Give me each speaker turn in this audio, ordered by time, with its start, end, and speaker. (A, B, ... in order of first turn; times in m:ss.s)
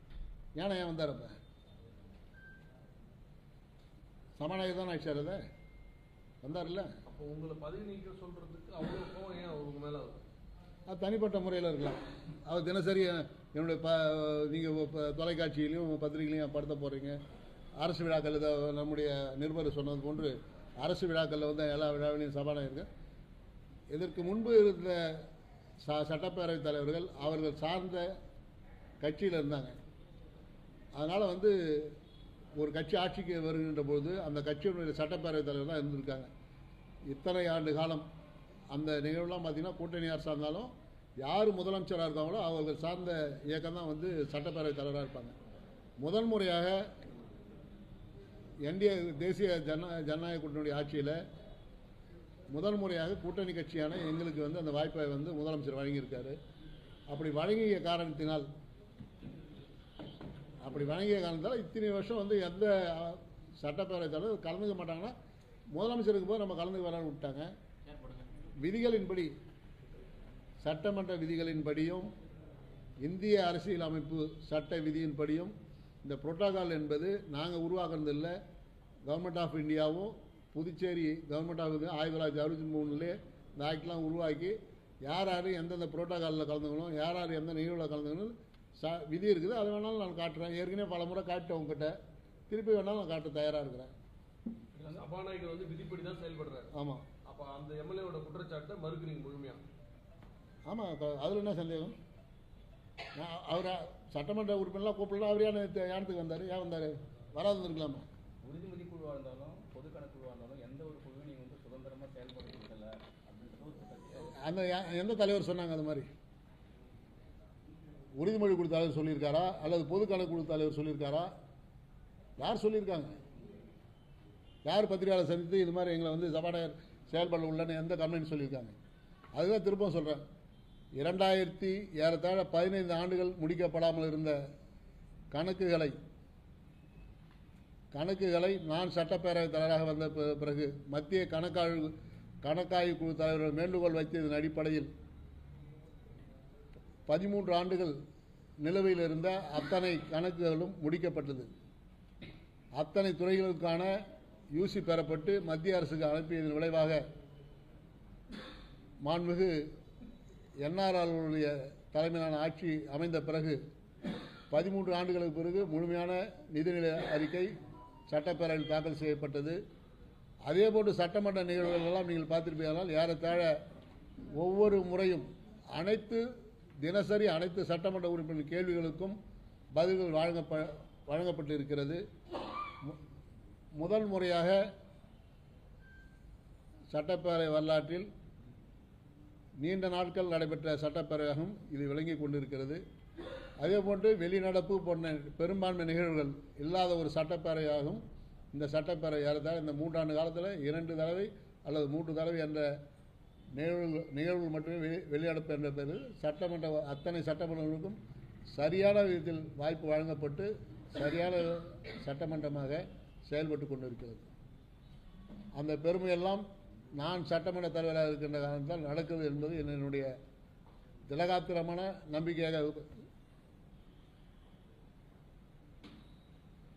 0:00.6-0:01.4 A
0:04.4-0:05.4 A
0:06.4-0:06.9 A
0:07.1-0:10.3 B
0:10.9-0:17.2 A
0:17.8-0:22.9 A
0:23.9-0:25.2 A
0:25.8-0:28.1 A
0:29.0-0:29.8 A
0:31.0-0:32.0 A
0:32.6-0:36.3 A
0:37.1-0:38.1 A
0:38.7-0:45.4 A
0:46.0-0:46.8 A
0:48.6-0:51.2 A
0:52.5-0:56.4 A
0:57.1-0:58.5 A
1:00.6-1:05.1 A
1:05.7-1:07.5 A
1:08.6-1:09.3 A
1:10.6-1:12.1 A
1:13.0-1:18.4 A
1:19.1-1:31.9 A
1:32.5-1:33.9 A
1:34.7-1:35.1 C
1:34.9-1:36.7 B
1:36.8-1:37.0 A
1:37.2-1:39.6 B
1:40.7-1:42.0 A
1:43.2-1:48.1 A
1:48.4-1:54.3 C
1:54.4-1:56.1 A
1:58.2-2:01.3 A
2:02.4-2:03.2 A
2:04.6-2:08.8 A
2:09.4-2:10.2 A
2:11.0-2:14.4 A
2:15.3-2:16.0 A
2:17.9-2:24.9 A
2:27.1-2:28.0 A
2:28.6-2:31.5 A
2:32.8-2:34.0 A
2:34.6-2:37.0 A
2:39.0-2:39.6 A
2:40.6-2:43.6 A
2:44.5-2:47.5 A
2:48.1-2:49.6 A
2:50.5-2:53.6 A
2:54.4-2:56.2 A
2:56.8-2:59.2 A
2:59.8-3:02.0 A
3:03.8-3:04.6 A
3:06.9-3:08.1 A
3:09.6-3:12.8 A
3:13.6-3:22.7 A
3:23.6-3:28.0 A
3:28.5-3:34.3 A
3:35.6-3:36.4 A
3:37.0-3:40.1 A
3:41.1-3:42.9 A